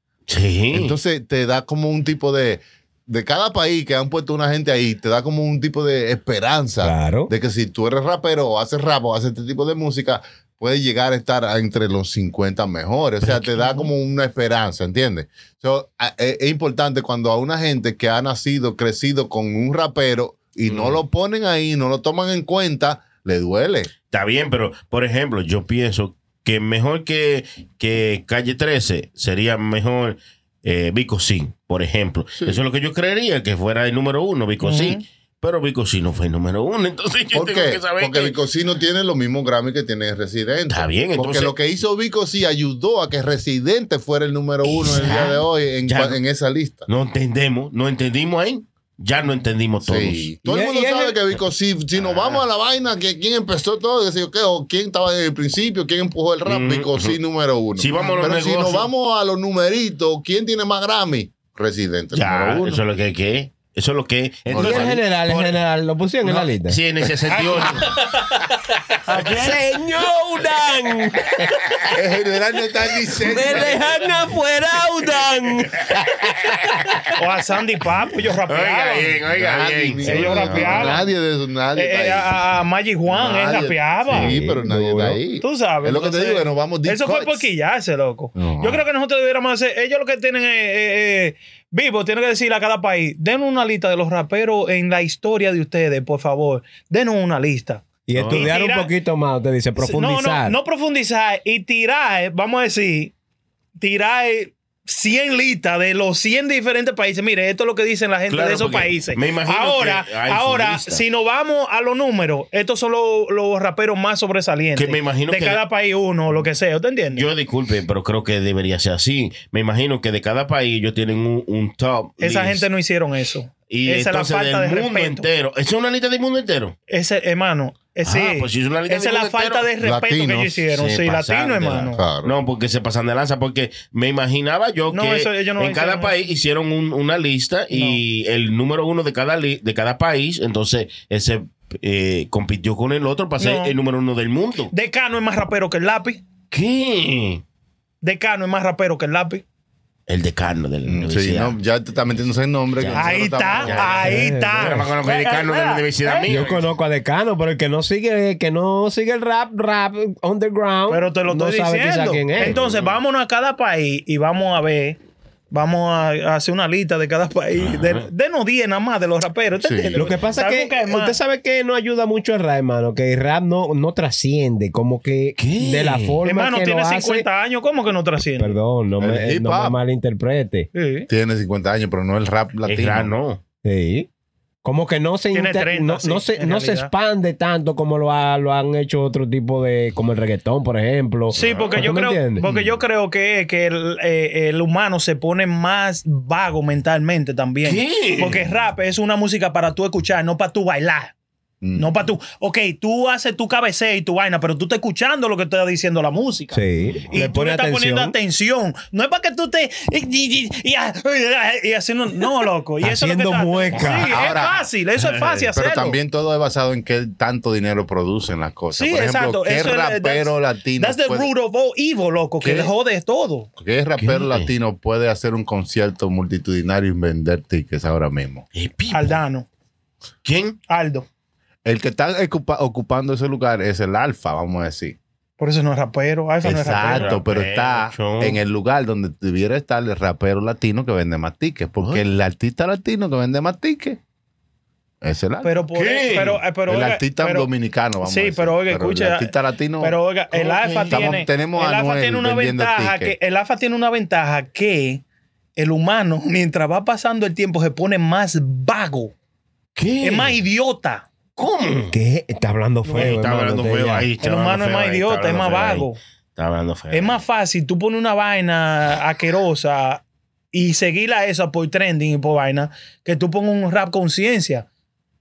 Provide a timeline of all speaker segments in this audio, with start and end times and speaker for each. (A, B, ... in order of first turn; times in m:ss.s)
0:00.3-0:01.0 A
0:00.7-0:23.9 B
0:06.8-0:07.3 C
0:13.2-0:13.5 A
0:20.6-0:21.0 A
0:24.1-0:38.4 A
0:34.6-0:35.0 D
0:37.3-0:46.9 B
0:40.7-0:41.6 A
0:44.6-0:46.2 A
0:46.9-0:50.3 A
0:49.8-1:02.8 B
0:50.4-0:51.2 C
0:52.0-0:52.4 A
0:56.5-0:57.2 A
0:57.8-0:58.9 A
1:02.1-1:05.6 A
1:04.5-1:05.0 B
1:04.5-1:06.8 C
1:06.2-1:08.0 A
1:07.3-1:07.6 D
1:09.0-1:09.6 D
1:09.1-1:11.9 C
1:11.9-1:14.0 B
1:13.1-1:17.1 C
1:17.2-1:19.2 D
1:18.5-1:21.0 A
1:19.3-1:22.4 B
1:20.0-1:21.0 D
1:21.8-1:24.4 D
1:23.1-1:27.5 B
1:24.1-1:25.2 C
1:25.4-1:38.9 D
1:28.4-1:28.8 B
1:38.1-1:40.6 C
1:38.1-1:38.5 A
1:39.8-1:43.1 D
1:43.8-1:57.3 D
1:48.3-1:51.0 A
1:54.8-1:55.6 A
1:57.1-2:02.6 A
2:02.2-2:05.2 D
2:03.7-2:06.8 A
2:06.9-2:12.0 D
2:08.0-2:09.7 A
2:09.8-2:10.6 B
2:10.7-2:24.7 A
2:11.9-2:12.4 B
2:14.9-2:16.1 D
2:17.7-2:18.0 D
2:23.4-2:23.8 D
2:24.7-2:26.2 D
2:26.5-2:27.4 A
2:28.0-2:29.4 D
2:30.1-2:31.6 A
2:30.9-2:34.1 B
2:32.8-2:36.7 A
2:32.9-2:36.3 D
2:34.0-2:34.9 C
2:36.2-2:42.6 C
2:40.9-2:45.0 D
2:42.4-2:43.0 A
2:45.5-2:51.2 D
2:47.6-2:48.1 A
2:49.6-2:50.1 B
2:50.0-2:57.3 C
2:55.4-2:56.2 A
2:56.2-2:58.6 D
2:58.4-3:00.7 C
2:59.0-2:59.8 B
3:00.7-3:01.1 D
3:01.1-3:03.1 B
3:02.6-3:03.4 A
3:03.6-3:04.1 C
3:04.6-3:12.4 C
3:05.3-3:06.9 D
3:11.3-3:11.9 A
3:11.3-3:21.1 D
3:12.4-3:12.8 B
3:17.6-3:18.5 A
3:21.6-3:22.0 B
3:21.8-3:36.0 D
3:26.5-3:28.1 C
3:32.8-3:34.2 C
3:33.8-3:34.7 B
3:35.0-3:35.5 A
3:35.5-3:41.3 B
3:38.8-3:43.5 D
3:42.4-3:42.7 B
3:43.6-3:48.4 B
3:44.0-3:44.5 A
3:48.6-3:49.2 A
3:48.9-3:49.5 D
3:50.2-3:50.6 A
3:50.7-3:51.1 D
3:51.6-3:55.0 B
3:55.4-3:57.2 D
3:56.4-4:04.0 B
3:56.8-3:58.4 A
4:05.0-4:05.5 B
4:05.4-4:07.5 D
4:05.7-4:06.4 A
4:06.6-4:10.0 B
4:08.0-4:15.0 D
4:10.3-4:11.2 A
4:10.9-4:13.2 B
4:15.6-4:19.1 D
4:19.8-4:20.4 A
4:20.0-4:21.1 D
4:21.4-4:22.0 A
4:21.9-4:24.1 C
4:22.8-4:23.2 D
4:22.9-4:27.2 A
4:24.2-4:26.0 D
4:26.9-4:34.6 D